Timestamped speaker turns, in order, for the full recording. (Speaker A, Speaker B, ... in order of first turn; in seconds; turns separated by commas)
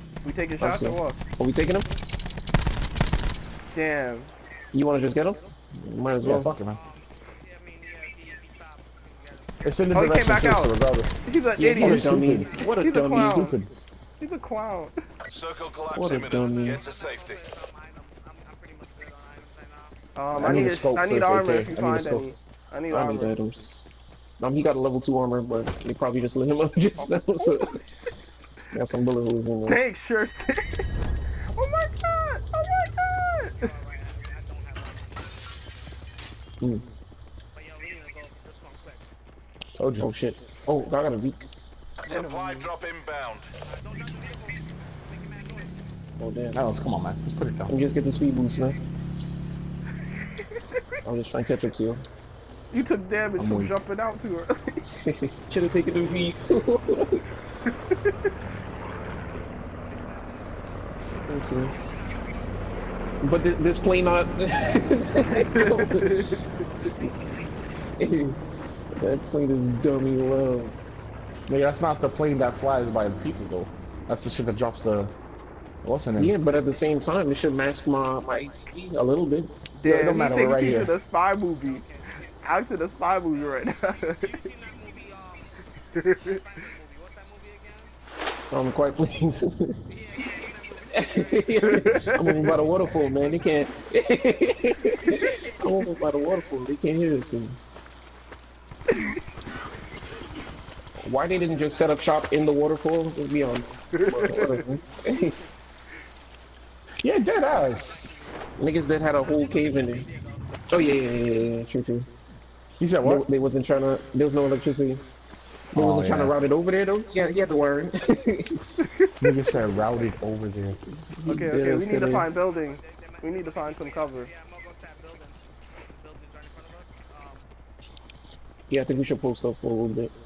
Speaker A: 0.2-1.2, Speaker B: 0.6-1.9, Speaker A: 3.7-4.3, Speaker B: 4.7-6.5, Speaker C: 6.2-6.8, Speaker D: 6.6-10.1, Speaker C: 9.6-11.2, Speaker A: 9.9-13.6, Speaker B: 11.6-13.6, Speaker C: 11.8-12.6, Speaker D: 12.3-13.0, Speaker C: 13.1-13.7, Speaker A: 14.2-15.0, Speaker E: 15.3-17.4, Speaker B: 15.9-16.8, Speaker D: 16.3-20.0, Speaker A: 20.1-23.4, Speaker B: 20.4-22.0, Speaker C: 20.4-22.2, Speaker B: 22.9-23.9, Speaker B: 24.4-27.8, Speaker A: 27.0-27.7, Speaker B: 28.7-29.8, Speaker A: 29.6-30.9, Speaker A: 31.5-33.7, Speaker D: 33.5-36.0, Speaker D: 37.5-39.2, Speaker C: 39.7-40.1, Speaker B: 40.0-41.5, Speaker E: 42.0-43.5, Speaker A: 42.1-42.7, Speaker D: 43.6-45.8, Speaker B: 46.2-46.6, Speaker C: 46.5-47.7, Speaker B: 47.7-48.8, Speaker B: 51.0-52.0, Speaker A: 52.7-54.9, Speaker C: 53.4-53.8, Speaker B: 54.9-57.2, Speaker D: 59.8-62.5, Speaker B: 61.2-61.7, Speaker B: 63.2-66.3, Speaker A: 65.5-66.4, Speaker D: 66.7-67.7, Speaker B: 68.0-68.4, Speaker B: 68.9-70.8, Speaker C: 71.5-75.1, Speaker C: 75.8-76.3, Speaker B: 76.2-79.7, Speaker D: 76.5-78.8, Speaker A: 79.8-81.8, Speaker C: 79.8-80.9, Speaker D: 80.1-80.8, Speaker D: 81.6-87.9, Speaker A: 82.4-84.5, Speaker A: 86.0-86.4, Speaker B: 88.5-89.8, Speaker D: 89.8-92.6, Speaker B: 90.9-97.6, Speaker A: 91.7-92.5, Speaker D: 93.2-93.5, Speaker D: 95.1-96.5, Speaker A: 98.9-99.2, Speaker B: 101.0-105.4, Speaker D: 101.3-102.6, Speaker A: 103.9-104.6, Speaker C: 107.0-108.1, Speaker D: 107.5-111.0, Speaker B: 108.6-110.1, Speaker B: 110.7-112.1, Speaker C: 112.8-113.3, Speaker B: 113.0-115.0, Speaker C: 115.7-116.4, Speaker B: 115.7-118.6, Speaker A: 118.8-119.5, Speaker C: 119.2-120.8, Speaker B: 121.1-122.3, Speaker A: 121.2-124.3, Speaker D: 122.3-125.4, Speaker D: 125.9-127.5, Speaker B: 128.7-130.1